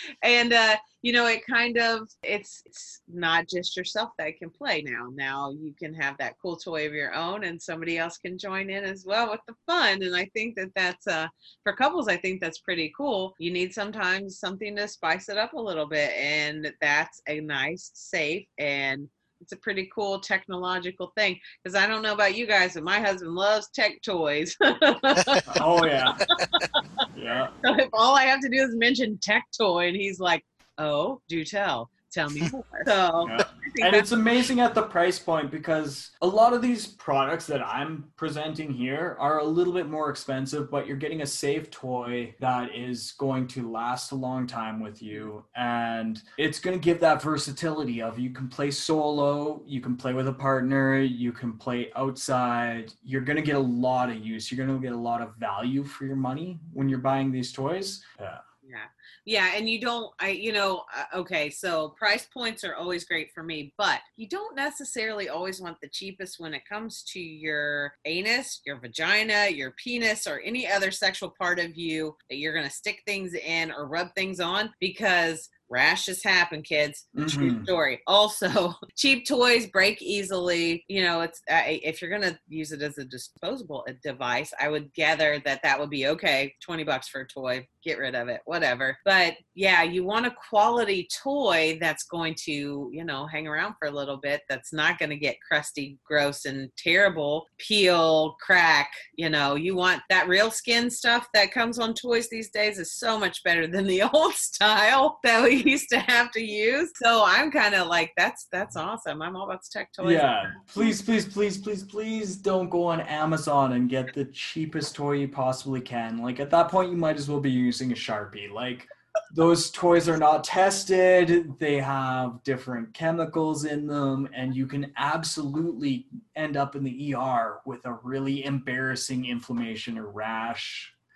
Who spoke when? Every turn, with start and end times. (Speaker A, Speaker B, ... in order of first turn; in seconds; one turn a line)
Speaker A: 0.2-25.6
Speaker B: 25.5-26.2
Speaker A: 26.3-27.0
Speaker B: 27.1-27.5
Speaker A: 27.6-34.0
Speaker B: 33.2-58.4
Speaker A: 58.6-110.9
Speaker B: 77.1-77.7
Speaker B: 110.0-130.9